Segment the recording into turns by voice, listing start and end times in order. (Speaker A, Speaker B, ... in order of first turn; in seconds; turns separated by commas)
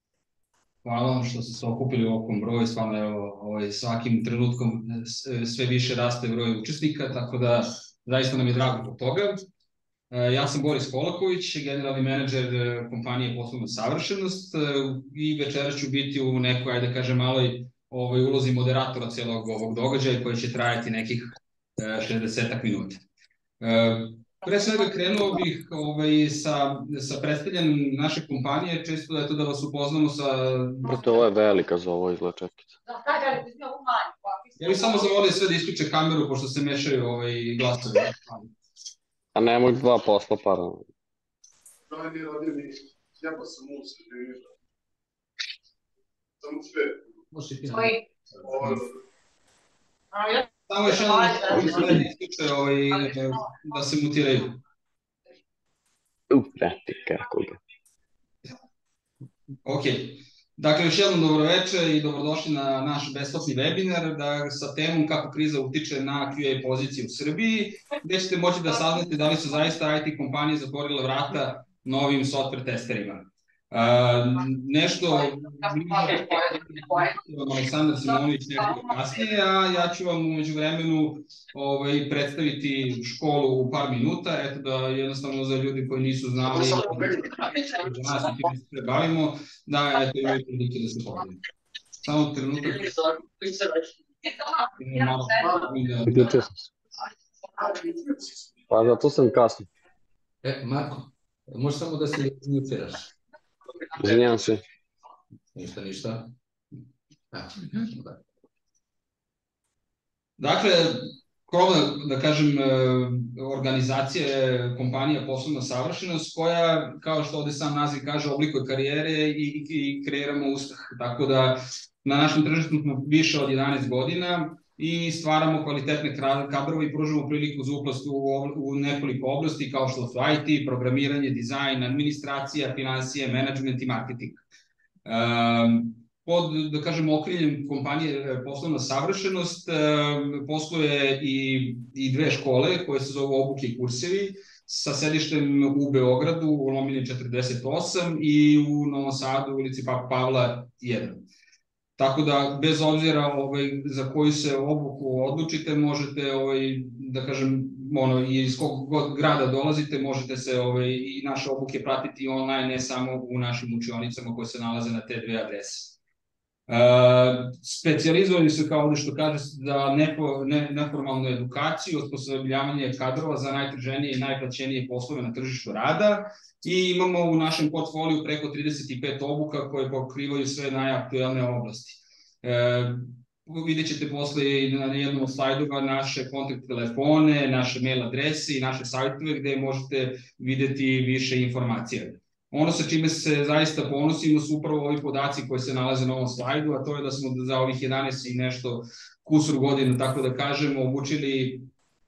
Speaker A: 0.8-9.4, Speaker A: 10.1-23.0, Speaker A: 23.6-31.0, Speaker B: 30.8-32.7, Speaker A: 34.6-38.4, Speaker B: 39.3-40.8, Speaker C: 41.9-44.4, Speaker C: 46.4-46.9, Speaker D: 47.3-48.0, Speaker A: 50.7-54.6, Speaker B: 56.3-57.6, Speaker A: 59.6-91.4, Speaker A: 92.0-93.5, Speaker A: 94.8-96.4, Speaker B: 96.1-96.5, Speaker B: 98.7-99.7, Speaker D: 100.4-103.1, Speaker B: 104.0-104.6, Speaker D: 105.5-106.3, Speaker D: 107.3-108.2, Speaker A: 110.4-134.4, Speaker A: 135.0-151.2, Speaker A: 152.0-166.0, Speaker A: 166.7-201.7